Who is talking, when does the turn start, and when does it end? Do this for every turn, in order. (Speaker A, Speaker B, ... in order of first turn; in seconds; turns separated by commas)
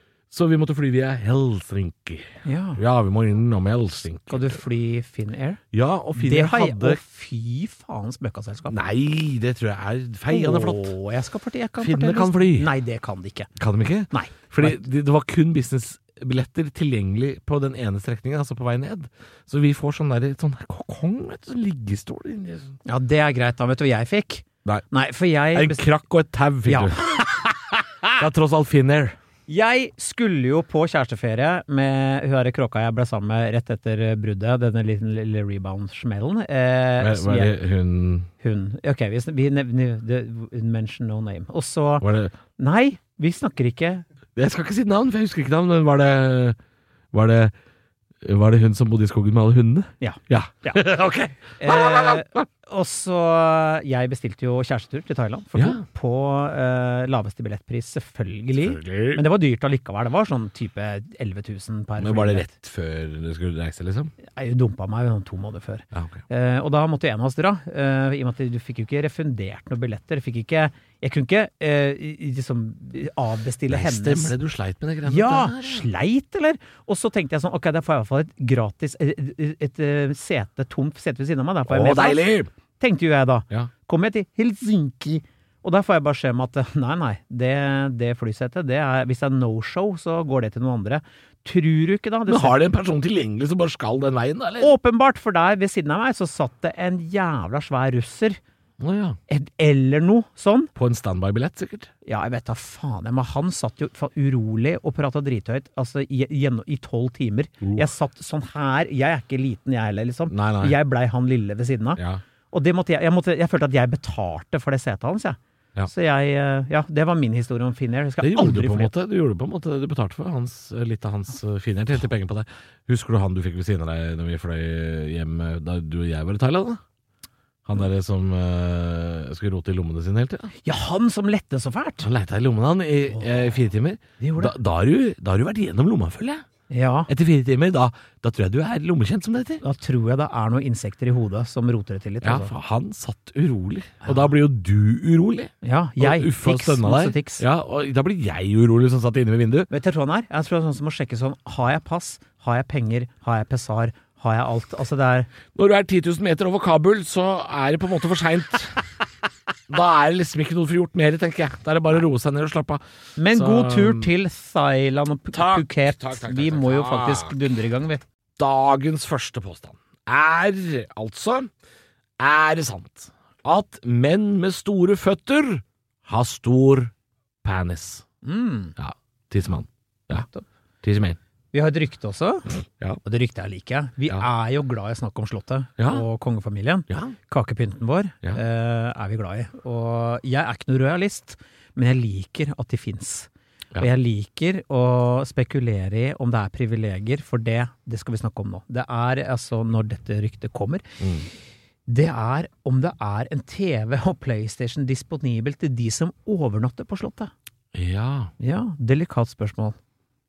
Speaker A: 0.3-4.6, Speaker B: 2.4-2.8, Speaker B: 4.3-5.6, Speaker A: 5.7-7.0, Speaker B: 6.2-8.8, Speaker A: 8.7-10.9, Speaker B: 10.3-13.5, Speaker A: 11.8-12.7, Speaker A: 13.6-22.8, Speaker B: 14.1-14.8, Speaker B: 22.9-25.8, Speaker A: 25.5-27.1, Speaker B: 26.7-27.5, Speaker A: 28.1-29.2, Speaker B: 29.5-37.6, Speaker A: 37.0-38.3, Speaker B: 38.4-42.1, Speaker A: 42.0-42.4, Speaker B: 42.6-44.0, Speaker A: 44.4-46.6, Speaker A: 47.1-47.5, Speaker A: 48.2-52.5, Speaker B: 50.0-50.8, Speaker B: 51.6-62.5, Speaker A: 55.6-55.8, Speaker A: 58.6-59.2, Speaker A: 62.0-64.1, Speaker B: 64.3-74.4, Speaker A: 65.9-66.2, Speaker A: 73.7-75.9, Speaker B: 75.0-92.6, Speaker A: 81.7-82.5, Speaker A: 92.3-94.7, Speaker B: 94.6-98.4, Speaker A: 98.8-99.2, Speaker B: 99.3-100.7, Speaker A: 100.8-101.9, Speaker B: 102.0-118.9, Speaker A: 107.6-107.9, Speaker A: 110.3-110.8, Speaker A: 112.0-112.2, Speaker A: 118.2-126.8, Speaker A: 127.7-130.5, Speaker B: 130.6-132.1, Speaker A: 132.0-136.4, Speaker B: 133.1-133.6, Speaker B: 134.2-134.5, Speaker B: 136.7-137.1, Speaker A: 137.1-139.6, Speaker B: 139.6-142.5, Speaker A: 142.2-149.7, Speaker B: 144.0-144.3, Speaker B: 145.6-147.4, Speaker B: 149.7-155.3, Speaker A: 155.6-158.8, Speaker A: 159.7-164.1, Speaker B: 163.2-168.0, Speaker A: 165.3-167.3, Speaker A: 168.4-171.5, Speaker A: 172.2-176.9, Speaker A: 177.4-178.1, Speaker B: 178.2-178.8, Speaker A: 178.8-180.3, Speaker B: 180.2-180.4, Speaker A: 180.8-181.2, Speaker B: 181.5-182.5, Speaker B: 183.0-201.0, Speaker A: 185.8-186.1, Speaker A: 186.9-187.2, Speaker A: 201.0-201.3, Speaker B: 201.9-207.3, Speaker A: 207.7-208.3, Speaker B: 208.4-209.8